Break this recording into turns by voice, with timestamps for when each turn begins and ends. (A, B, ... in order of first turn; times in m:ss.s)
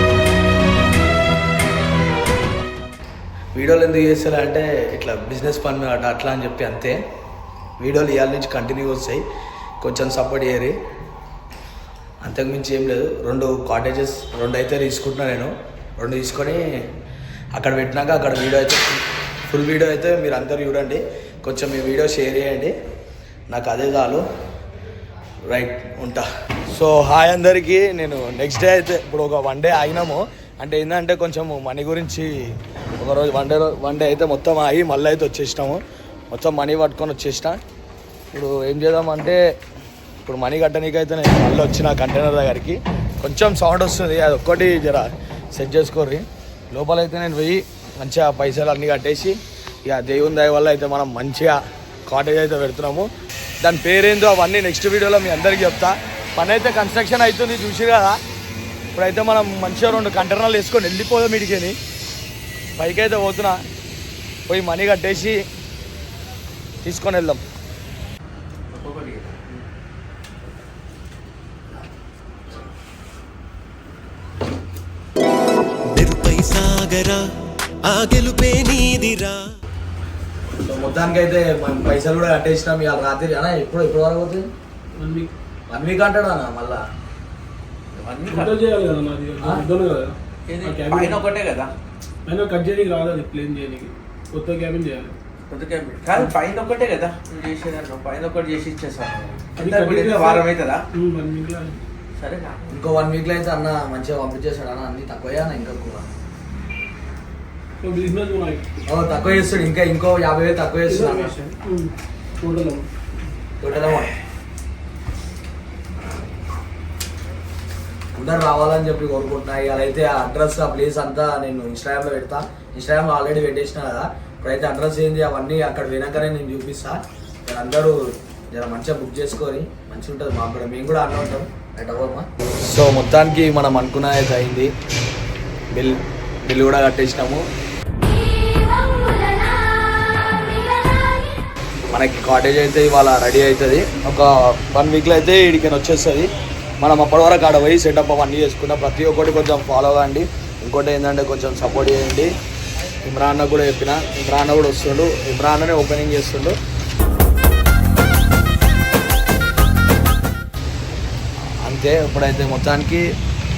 0:03.6-0:07.0 A
0:07.8-0:09.2 A
0:09.8-0:10.8 A
0:12.2-0:16.8 A
0:17.5-0:22.7 A
0:23.5-0:24.2 A
0:25.5-0:32.3 A
0:33.0-0:37.6 A
0:38.3-0:39.4 A
0:40.2-0:53.1 A
0:53.6-0:58.2 A
0:59.0-1:01.8 A
1:02.8-1:03.6 A
1:04.5-1:05.4 A
1:06.8-1:07.4 A
1:08.7-1:09.6 B
1:15.9-1:17.2 C
1:17.8-1:19.5 C
1:20.6-1:24.5 A
1:25.0-1:25.3 D
1:25.7-1:26.8 A
1:27.9-1:28.6 B
1:28.3-1:31.2 D
1:30.5-1:31.7 B
1:32.3-1:35.1 D
1:35.5-1:40.8 B
1:39.6-1:41.8 D
1:42.2-1:42.6 B
1:42.7-1:46.1 A
1:47.8-1:48.7 D
1:48.9-1:51.3 A
1:50.9-1:52.9 D
1:53.6-1:54.1 A
1:58.2-2:14.7 A
2:15.7-2:17.4 A
2:21.9-2:26.3 A
2:26.8-2:32.3 A
2:33.0-2:36.6 A
2:41.6-2:43.0 A